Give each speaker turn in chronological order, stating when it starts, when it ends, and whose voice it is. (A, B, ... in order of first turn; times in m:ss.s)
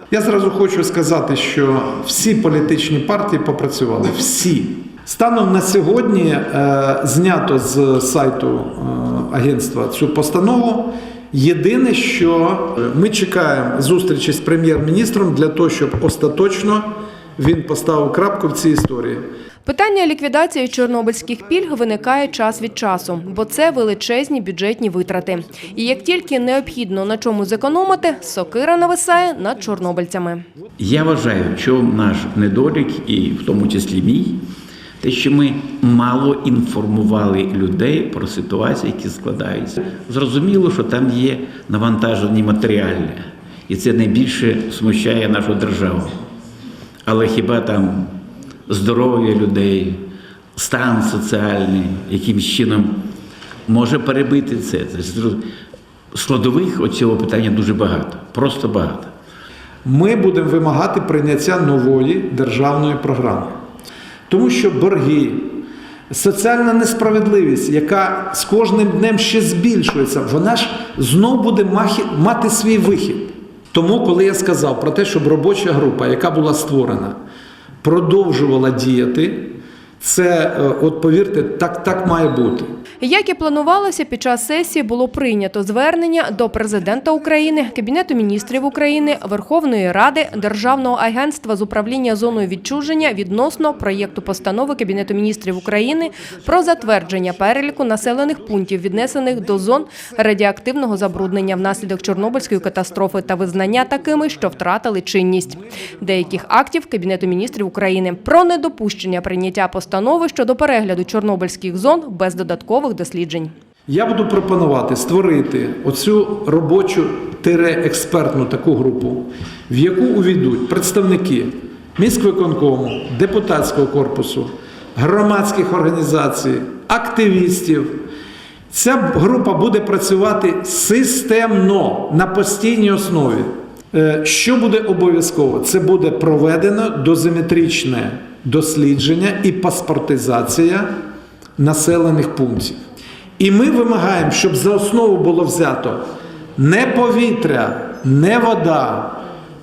0:00.1-0:19.2 A
0:19.6-0:30.4 B
0:30.8-0:34.4 C
0:35.0-0:46.2 C
0:47.0-0:53.1 C
0:53.7-0:55.4 C
0:56.1-0:59.1 C
0:59.8-1:03.6 A
1:04.3-1:17.2 A
1:17.8-1:22.7 A
1:23.0-1:53.5 B
1:53.9-2:08.1 A
2:08.7-2:20.9 A
2:21.6-2:22.8 A
2:23.4-2:26.0 A
2:26.6-2:29.2 A